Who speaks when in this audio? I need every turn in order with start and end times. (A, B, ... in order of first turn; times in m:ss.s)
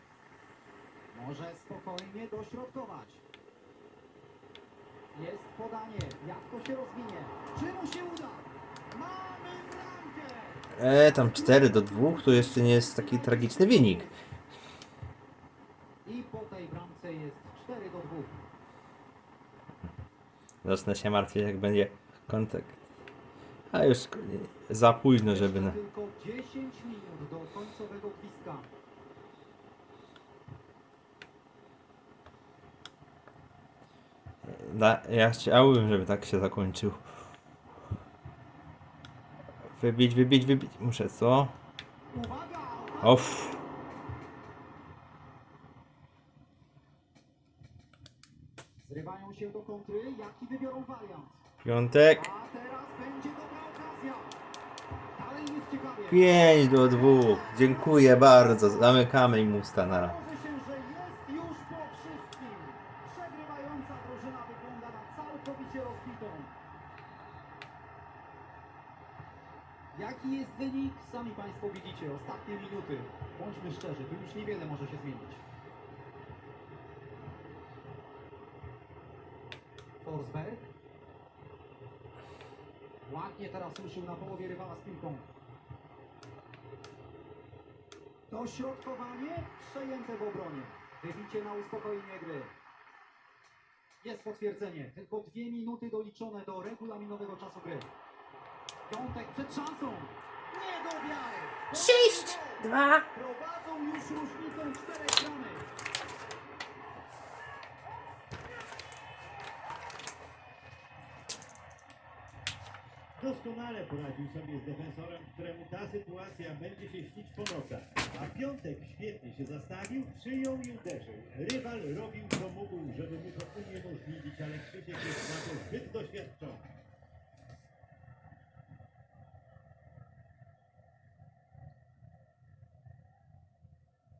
0:01.1-0:03.2 A
0:05.1-0:14.1 A
0:10.7-0:14.1 B
0:16.0-0:18.4 A
0:20.6-0:22.8 B
0:23.7-0:25.8 B
0:25.2-0:28.7 A
0:34.4-0:37.0 B
0:39.7-0:41.5 B
0:42.1-0:43.3 A
0:43.0-0:43.6 B
0:48.8-0:51.4 A
0:51.6-0:52.2 B
0:52.1-0:54.3 A
0:55.1-0:59.1 A
0:56.1-1:00.1 B
0:59.8-1:06.5 A
1:09.9-1:15.4 A
1:20.0-1:20.7 A
1:23.0-1:25.3 A
1:28.3-1:32.5 A
1:34.0-1:37.9 A
1:38.9-1:45.7 A
1:41.7-1:43.0 B
1:53.2-2:06.6 C